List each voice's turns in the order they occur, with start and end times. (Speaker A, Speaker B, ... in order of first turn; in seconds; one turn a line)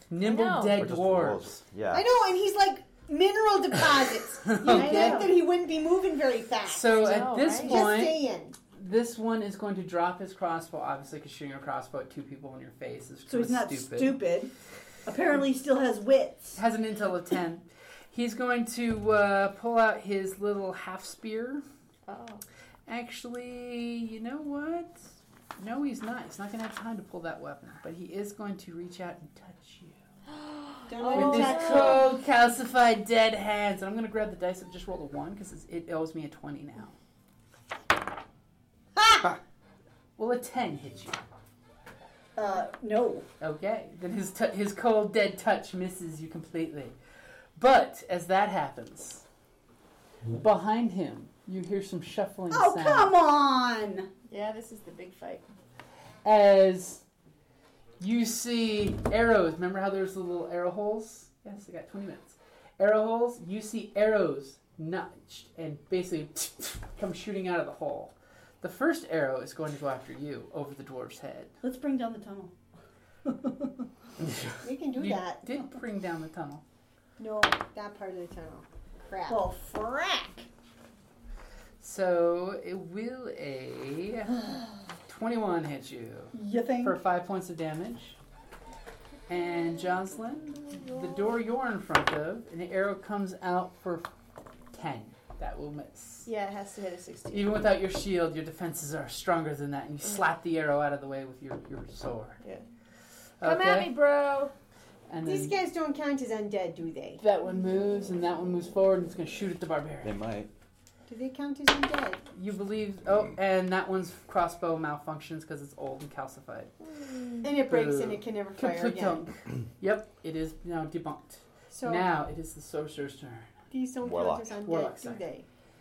Speaker A: 0.1-1.6
Speaker B: 0.2-0.8
Speaker C: 0.8-2.0
Speaker D: 1.9-8.5
Speaker A: 4.5-5.3
Speaker E: 4.6-5.4
Speaker A: 6.6-8.2
Speaker B: 7.0-7.9
Speaker A: 8.7-14.2
Speaker E: 13.3-14.5
Speaker E: 15.1-16.6
Speaker A: 16.5-21.6
Speaker B: 22.1-22.4
Speaker A: 22.9-30.0
Speaker B: 30.2-32.1
Speaker D: 30.9-32.1
Speaker A: 31.1-37.0
Speaker A: 40.2-41.2
Speaker E: 42.4-43.3
Speaker A: 43.4-47.0
Speaker A: 47.5-49.2
Speaker A: 50.3-53.1
Speaker E: 52.5-54.1
Speaker B: 54.3-55.5
Speaker A: 56.2-57.0
Speaker A: 58.0-71.5
Speaker E: 71.6-72.5
Speaker E: 73.2-73.7
Speaker A: 74.2-76.6
Speaker D: 74.6-75.4
Speaker D: 77.2-79.5
Speaker E: 79.3-80.5
Speaker A: 81.8-84.5
Speaker A: 85.1-88.2
Speaker E: 86.3-87.0
Speaker A: 89.3-94.1
Speaker B: 90.6-91.3
Speaker A: 94.7-96.3
Speaker B: 96.2-97.6
Speaker A: 97.3-102.4
Speaker A: 103.4-103.9
Speaker B: 103.4-104.5
Speaker A: 105.1-105.5
Speaker D: 105.2-107.2
Speaker A: 107.2-110.2
Speaker C: 110.0-110.5
Speaker D: 111.1-112.2
Speaker A: 112.3-116.7
Speaker B: 116.8-117.5
Speaker D: 117.4-119.2
Speaker A: 117.6-123.5
Speaker D: 121.7-122.1
Speaker D: 123.7-125.4
Speaker C: 124.0-124.5
Speaker A: 124.6-125.2